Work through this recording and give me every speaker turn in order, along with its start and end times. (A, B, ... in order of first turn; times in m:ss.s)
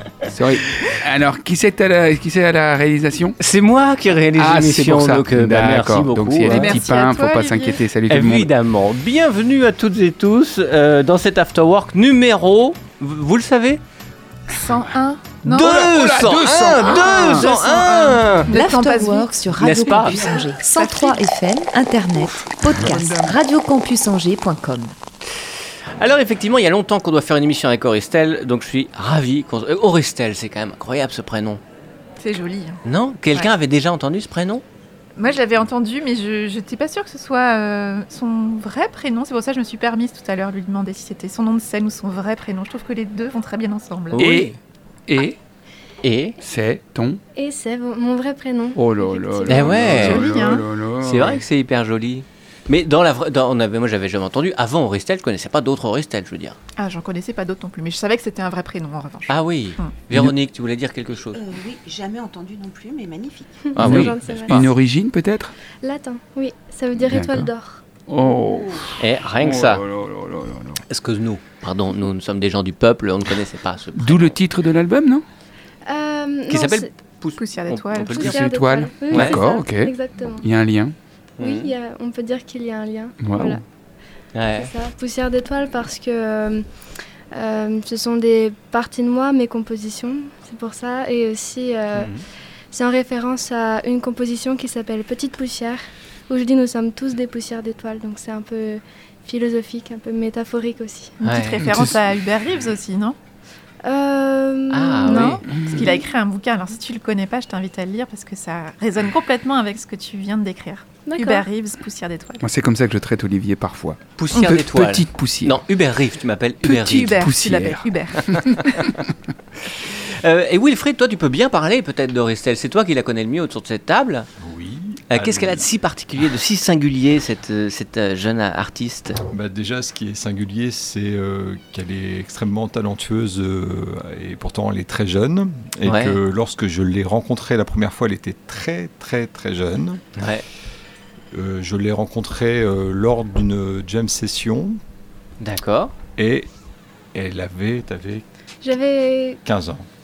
0:00.2-0:03.4 A
0:03.4-0:06.8 B
0:04.3-0:08.5 A
0:06.4-0:07.8 C
0:08.1-0:13.8 B
0:14.5-0:15.8 C
0:15.5-0:18.5 B
0:15.5-0:17.5 A
0:16.6-0:21.2 C
0:18.5-0:24.9 D
0:19.6-0:20.2 B
0:22.7-0:23.3 A
0:26.0-0:31.6 B
0:32.2-0:32.8 C
0:32.8-0:34.6 B
0:35.2-0:44.2 C
0:44.1-0:44.5 B
0:44.2-0:44.6 A
0:45.1-0:45.4 A
0:46.0-0:46.4 B
0:46.4-0:47.2 A
0:47.3-0:49.7 E
0:48.8-0:51.4 A
0:49.5-0:50.3 B
0:49.7-0:50.6 C
0:51.0-0:56.6 B
0:56.8-1:00.0 C
0:59.3-1:01.4 B
1:01.3-1:03.7 F
1:03.7-1:04.6 E
1:03.8-1:04.7 B
1:03.8-1:05.5 A
1:05.8-1:07.8 E
1:07.1-1:07.5 A
1:08.1-1:10.8 A
1:09.0-1:09.8 B
1:10.9-1:14.4 B
1:14.0-1:15.2 A
1:15.8-1:16.9 E
1:16.5-1:18.4 B
1:17.4-1:18.2 C
1:18.1-1:20.4 E
1:18.2-1:20.9 A
1:19.1-1:19.4 B
1:21.4-1:21.7 B
1:21.4-1:23.6 E
1:23.2-1:23.6 A
1:24.3-1:24.7 B
1:24.6-1:26.6 E
1:27.3-1:32.1 E
1:32.0-1:32.2 B
1:32.7-1:41.2 E
1:41.2-1:43.2 C
1:41.2-1:41.7 B
1:43.8-1:46.0 E
1:44.7-1:45.4 B
1:45.0-1:52.4 C
1:45.5-1:45.9 A
1:51.0-1:51.5 E
1:52.4-1:55.5 A
1:54.2-1:57.2 B
1:56.6-1:58.9 A
1:56.7-1:58.3 C
1:59.7-2:04.3 B
2:04.4-2:05.6 G
2:05.1-2:09.2 B
2:09.3-2:20.2 G
2:15.8-2:16.2 B
2:20.2-2:20.4 B
2:21.3-2:24.8 G
2:25.4-2:25.9 B
2:26.2-2:26.5 G
2:27.1-2:28.2 G
2:28.6-2:29.4 E
2:29.4-2:29.8 G